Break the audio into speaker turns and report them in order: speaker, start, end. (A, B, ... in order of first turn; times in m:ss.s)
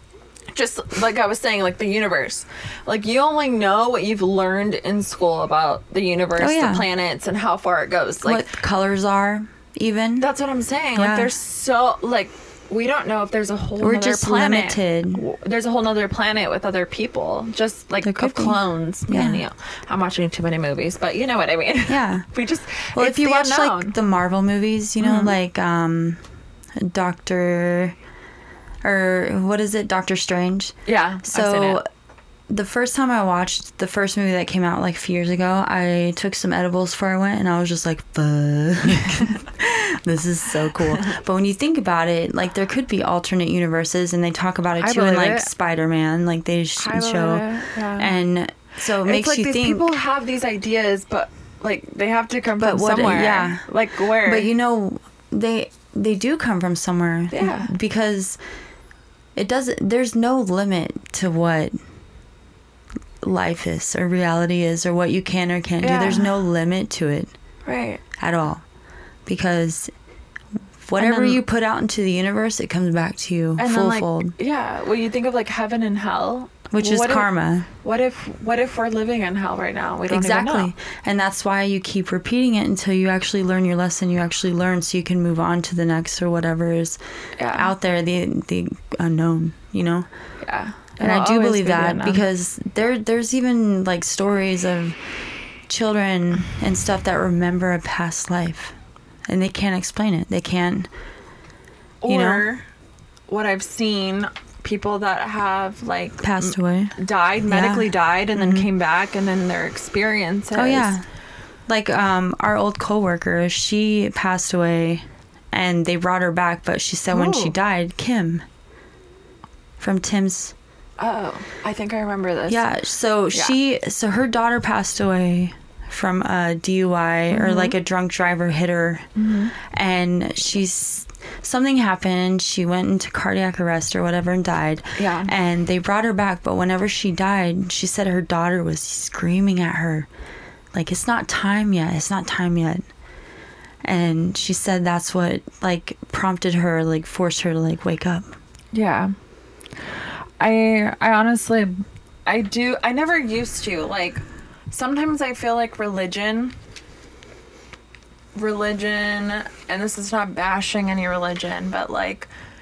0:00.5-0:08.5 A
0:06.4-0:06.9 B
0:08.2-0:10.3 B
0:10.2-0:24.0 A
0:11.0-0:11.3 B
0:13.8-0:15.2 B
0:18.0-0:19.4 B
0:21.9-0:22.2 B
0:22.9-0:26.2 B
0:25.0-0:25.3 A
0:26.8-0:28.0 B
0:28.8-0:31.8 B
0:30.8-0:31.8 A
0:32.5-0:49.9 B
0:44.8-0:45.5 A
0:46.8-0:48.2 A
0:49.0-0:54.5 A
0:52.6-0:53.6 B
0:54.2-0:58.4 B
0:57.3-0:57.7 A
0:59.4-1:01.8 B
1:03.2-1:07.3 B
1:05.8-1:06.3 A
1:07.6-1:08.0 A
1:08.2-1:08.6 B
1:09.2-1:09.9 B
1:10.8-1:14.3 B
1:11.0-1:11.4 A
1:13.6-1:17.3 A
1:16.7-1:17.7 B
1:17.8-1:20.7 A
1:20.1-1:27.0 B
1:27.4-1:27.7 A
1:27.5-1:30.1 B
1:30.4-1:32.2 A
1:31.0-1:35.0 B
1:35.7-1:38.7 B
1:39.3-1:40.9 B
1:42.0-1:42.6 A
1:42.1-1:42.4 B
1:43.3-1:50.9 A
1:46.2-1:47.0 B
1:47.5-1:48.7 B
1:50.5-1:51.0 B
1:51.7-1:58.4 B
1:57.1-1:57.5 A
1:59.8-2:00.5 B
2:01.0-2:02.7 A
2:02.5-2:20.1 B
2:07.3-2:07.7 A
2:09.2-2:09.5 A
2:15.0-2:15.3 A
2:20.7-2:22.8 B
2:23.8-2:28.3 B
2:28.7-2:29.1 A
2:30.4-2:31.7 A
2:32.2-2:36.5 A
2:38.3-2:42.3 A